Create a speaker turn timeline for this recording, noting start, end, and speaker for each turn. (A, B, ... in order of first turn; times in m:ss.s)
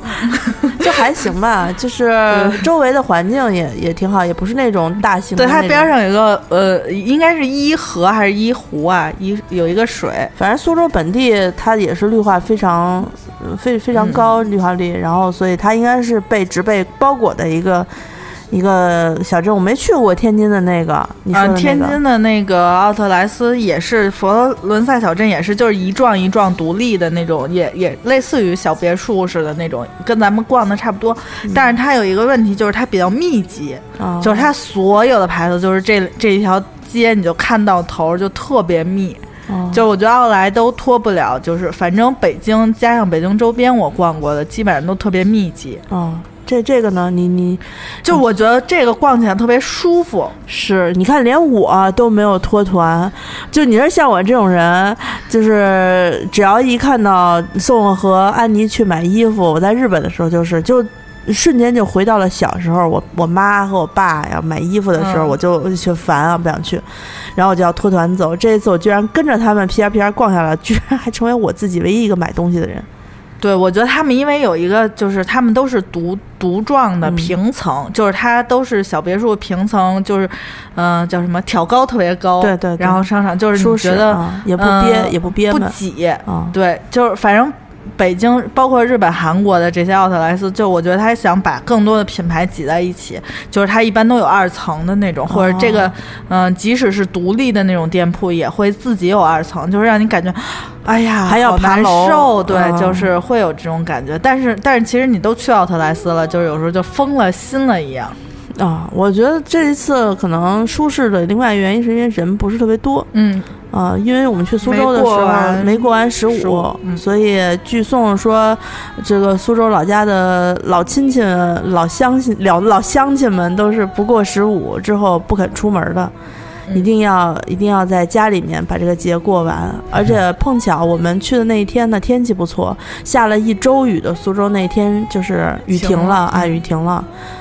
0:00.3-0:00.7 A
0:00.8-0:05.9 B
0:02.3-0:02.6 A
0:05.4-0:10.3 A
0:10.4-0:17.9 B
0:14.0-0:14.2 A
0:18.5-0:22.0 B
0:21.3-0:45.8 A
0:34.0-0:34.5 B
0:39.5-0:39.8 B
0:45.9-0:48.2 B
0:48.0-0:50.4 A
0:50.5-1:12.9 B
1:05.0-1:05.4 A
1:13.4-1:48.2 A
1:17.0-1:17.3 B
1:22.4-1:23.0 B
1:23.5-1:25.8 B
1:26.2-1:26.5 B
1:35.3-1:35.9 B
1:41.3-1:43.1 B
1:48.6-1:53.1 B
1:53.1-1:53.5 A
1:53.7-2:06.1 B
1:54.6-1:57.0 A
2:06.7-2:17.1 B
2:15.7-2:16.6 A